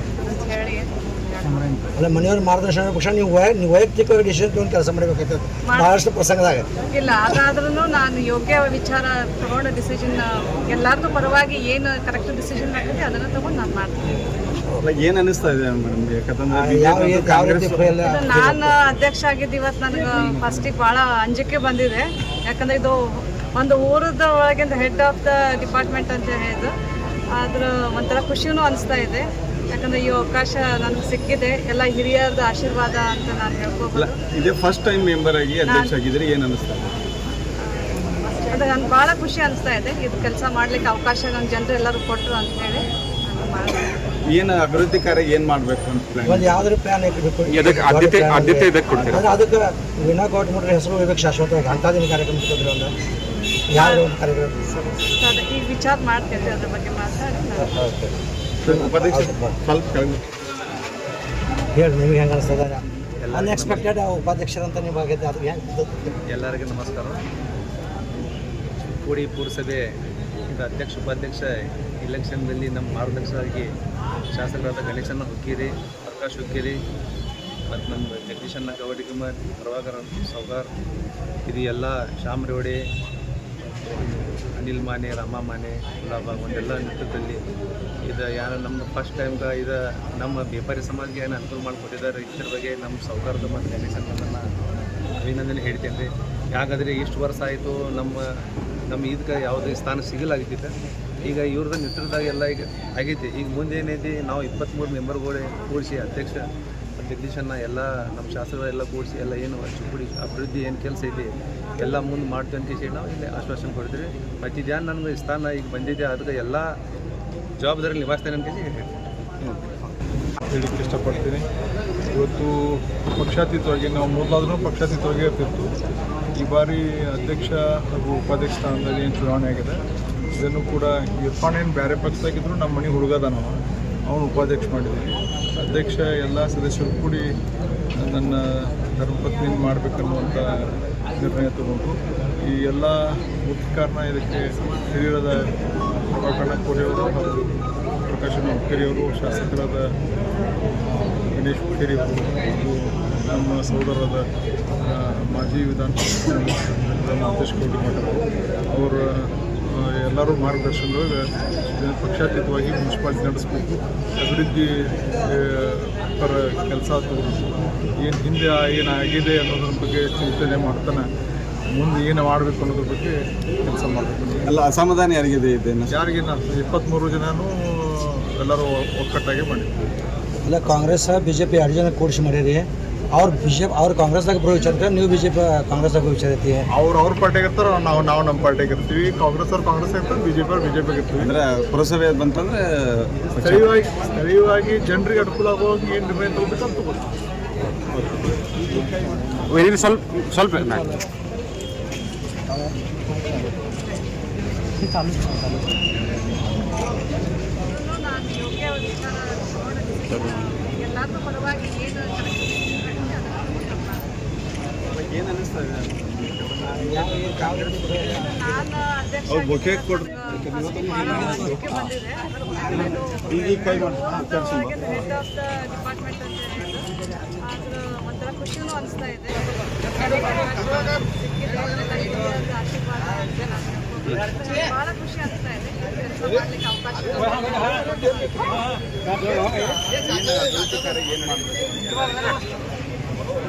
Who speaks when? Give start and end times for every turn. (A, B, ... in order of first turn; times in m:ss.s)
0:00.2-0:00.9 A
0:01.9-0:06.7 B
0:05.7-0:05.9 A
0:06.9-0:14.2 A
0:14.8-0:18.1 C
0:16.5-0:18.8 B
0:18.1-0:26.7 A
0:27.3-0:34.2 A
0:33.9-0:37.0 C
0:35.6-0:35.9 A
0:37.6-0:44.0 A
0:44.3-0:46.7 C
0:46.2-0:52.9 B
0:47.4-0:49.2 D
0:48.9-0:49.3 C
0:53.7-0:54.8 B
0:53.7-0:54.1 A
0:54.9-0:57.7 A
0:57.8-0:58.1 C
0:58.6-0:59.6 B
0:58.6-1:00.3 C
1:01.7-1:06.1 B
1:03.2-1:03.9 E
1:06.3-1:07.2 E
1:08.9-1:09.9 E
1:10.4-1:13.7 E
1:14.3-1:16.8 E
1:17.7-1:20.7 E
1:21.4-1:22.8 E
1:23.8-1:27.4 E
1:28.1-1:34.4 E
1:35.2-1:40.7 E
1:41.2-1:56.8 E
1:57.6-1:58.9 E
2:00.5-2:01.4 F
2:02.1-2:05.7 F
2:06.4-2:09.8 F
2:10.3-2:17.2 F
2:18.0-2:25.5 F
2:26.1-2:27.5 F
2:28.1-2:29.8 F
2:31.3-2:34.2 F
2:34.8-2:51.1 F
2:51.7-2:54.5 F
2:54.4-2:55.9 C
2:55.9-2:59.7 F
3:00.4-3:06.7 B
3:06.7-3:11.3 F
3:11.2-3:13.7 C
3:13.4-3:17.0 F
3:17.9-3:18.8 C
3:19.5-3:20.9 D
3:27.6-3:34.1 A
3:34.9-3:37.9 C
3:36.7-3:38.5 B
3:37.9-3:58.5 A
3:39.3-3:41.8 C
3:42.8-3:44.9 C
3:59.9-4:02.4 C